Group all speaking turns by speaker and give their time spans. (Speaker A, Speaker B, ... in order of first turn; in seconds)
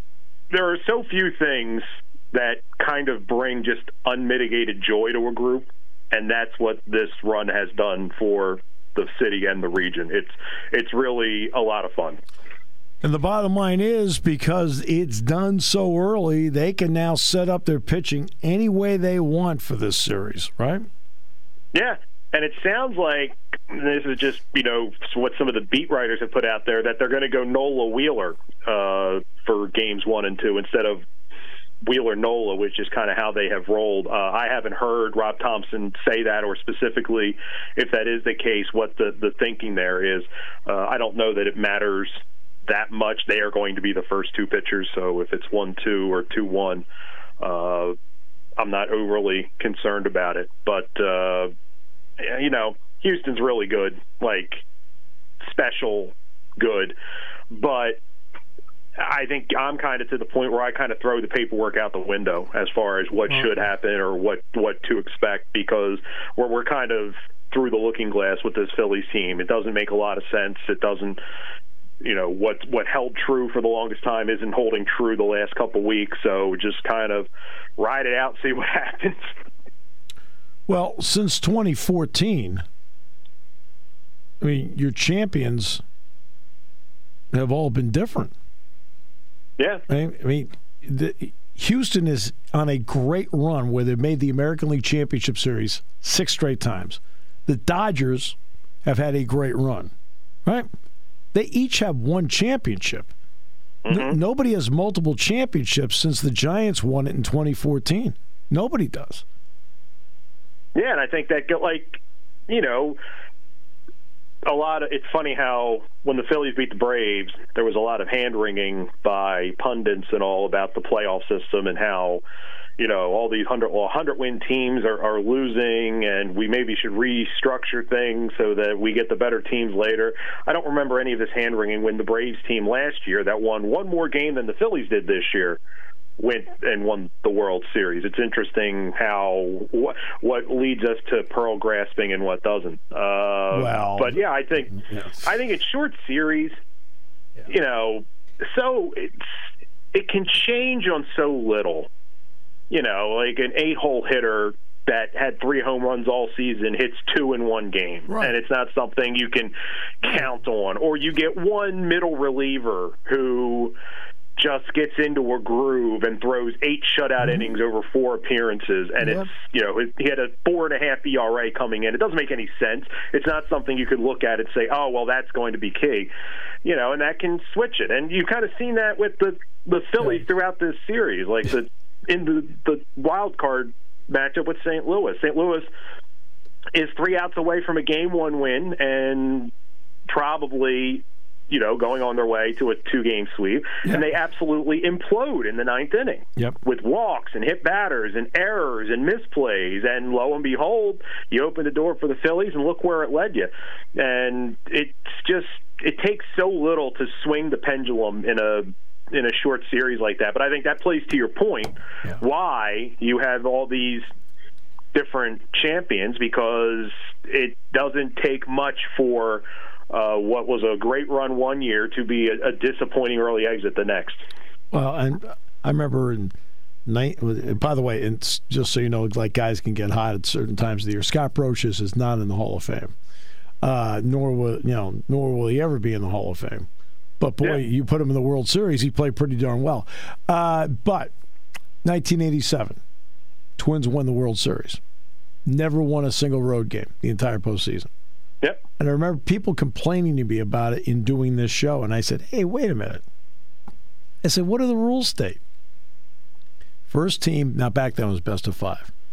Speaker A: 0.5-12.2, 21.7-31.0, 31.8-46.9, 47.4-48.0, 48.6-51.5, 52.2-54.6, 55.4-57.0, 57.5-58.0, 59.0-71.2, 72.0-79.3, 89.6-89.8, 103.8-104.2, 110.8-113.0, 114.5-122.2, 122.8-135.6, 136.2-144.7, 145.2-146.6, 147.5-149.2, 149.9-151.9, 152.7-163.8, 164.4-176.1, 176.6-185.7, 186.7-189.5, 190.1-214.1, 214.9-224.2
Speaker B: 13.0-20.9, 80.7-82.7, 84.4-85.8, 87.3-88.3, 89.9-99.9, 101.3-103.1, 103.9-109.2, 143.5-145.3, 158.1-158.3, 169.0-169.3, 224.7-226.3, 226.8-232.9, 233.6-236.7, 237.2-241.1, 241.8-242.8, 243.6-244.8, 245.4-247.9, 248.8-253.0, 254.2-255.4, 256.9-258.9